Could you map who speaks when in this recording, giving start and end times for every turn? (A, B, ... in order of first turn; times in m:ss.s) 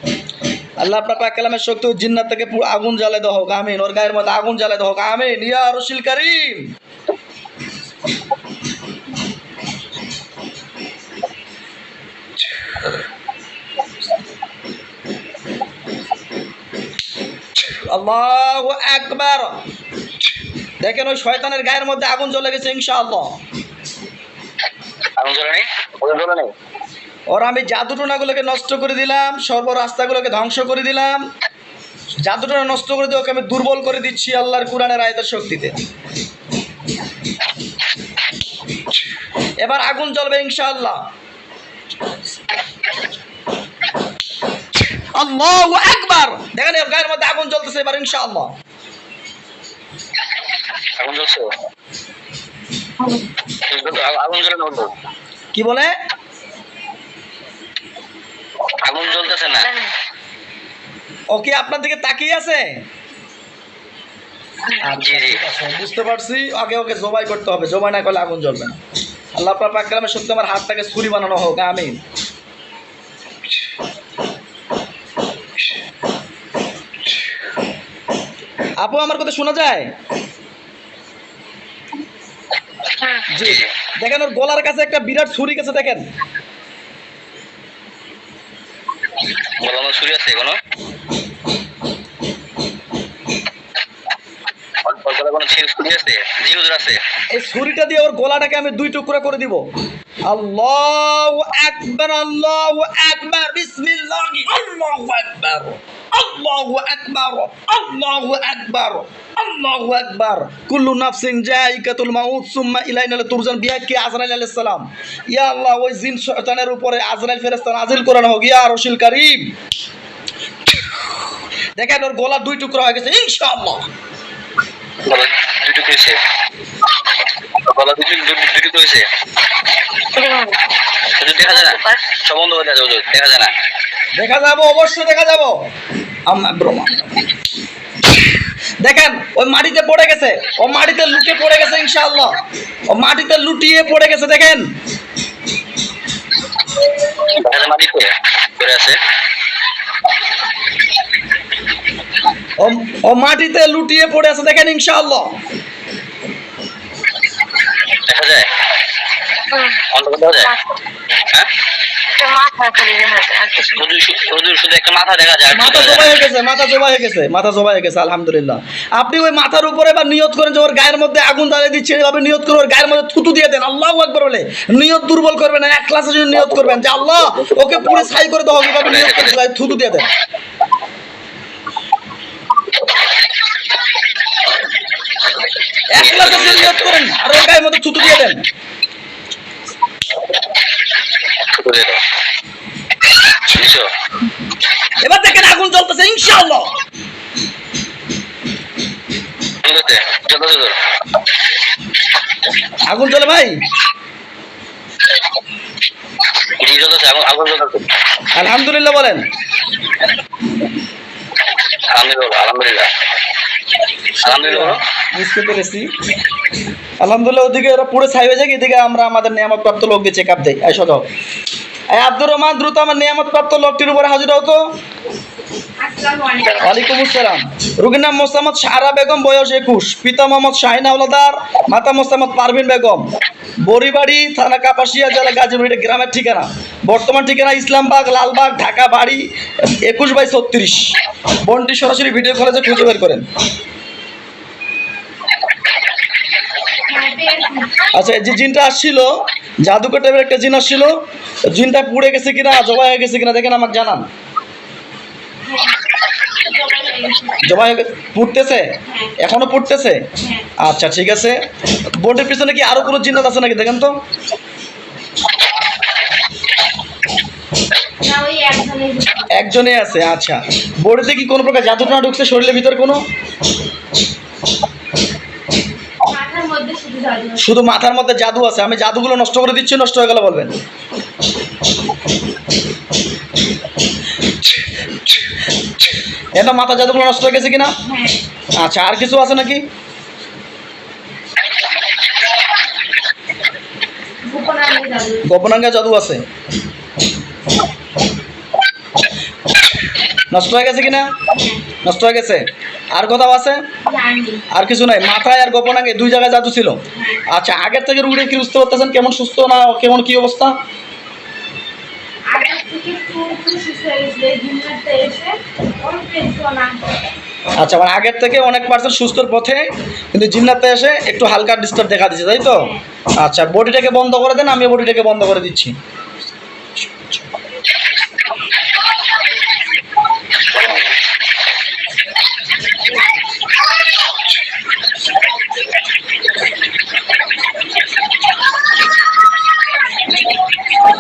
0:00.8-0:06.6 A
0:17.7-0:19.5 A
0:20.8-0:23.3 A
0:25.2-0:26.5 B
0:27.3-0:31.2 A
0:32.2-0:35.8 A
0:39.6-0:41.0 A
0:45.1-0:48.5 A
0:51.0-0:51.5 B
0:53.7-0:54.9 B
0:55.5-0:55.9 A
0:58.8-0:59.7 B
0:59.4-0:59.9 C
1:01.3-1:02.7 A
1:04.8-1:08.8 A
1:05.0-1:05.4 B
1:09.4-1:12.0 A
1:18.8-1:19.9 A
1:23.3-1:26.0 A
1:23.4-1:23.7 B
1:29.6-1:30.6 B
1:34.8-1:37.0 B
1:37.3-1:39.6 A
1:40.3-1:59.5 A
2:01.8-2:03.9 A
2:05.1-2:06.2 B
2:07.6-2:09.0 B
2:10.2-2:10.6 C
2:11.2-2:13.5 B
2:11.4-2:12.0 C
2:14.2-2:15.6 A
2:16.3-2:17.1 A
2:18.8-2:22.3 A
2:22.9-2:24.6 A
2:27.4-2:29.0 B
2:32.6-2:35.4 A
2:38.1-2:38.5 B
2:39.5-2:39.8 C
2:39.9-2:40.5 B
2:40.4-2:40.6 C
2:42.2-2:43.8 C
2:43.8-2:46.2 B
2:45.5-3:00.1 A
2:58.8-2:59.4 B
3:05.9-3:08.4 A
3:06.0-3:06.9 B
3:11.5-3:12.0 B
3:13.4-3:13.9 B
3:15.0-3:16.7 A
3:19.6-3:20.8 B
3:22.9-3:23.5 A
3:26.6-3:27.8 B
3:28.3-3:29.2 A
3:31.9-3:32.9 B
3:34.2-3:35.8 A
3:34.2-3:34.8 B
3:37.0-3:41.1 A
3:41.9-3:44.6 A
3:45.8-3:46.8 D
3:46.6-3:53.0 A
3:53.6-3:59.2 A
3:59.8-4:03.2 A
4:06.9-4:07.9 D
4:07.9-4:09.1 A
4:09.6-4:10.9 A
4:11.5-4:14.0 A
4:15.4-4:15.8 D
4:16.5-4:17.6 D
4:17.4-4:18.7 A
4:18.8-4:19.2 D
4:19.2-4:20.0 A
4:20.2-4:20.5 D
4:20.6-4:21.4 A
4:22.0-4:23.9 A
4:28.0-4:29.3 D
4:29.3-4:33.0 A
4:36.0-4:37.5 D
4:37.4-4:40.5 A
4:46.4-4:47.7 A
4:47.8-4:48.2 D
4:48.6-4:49.6 A
4:54.2-4:55.2 D
4:55.2-4:56.2 A
5:00.3-5:01.1 A
5:01.3-5:01.6 D
5:01.8-5:03.6 A
5:03.8-5:04.4 D
5:04.5-5:10.5 A
5:06.9-5:07.2 D
5:12.3-5:17.0 D
5:17.6-5:25.7 A
5:22.4-5:22.8 D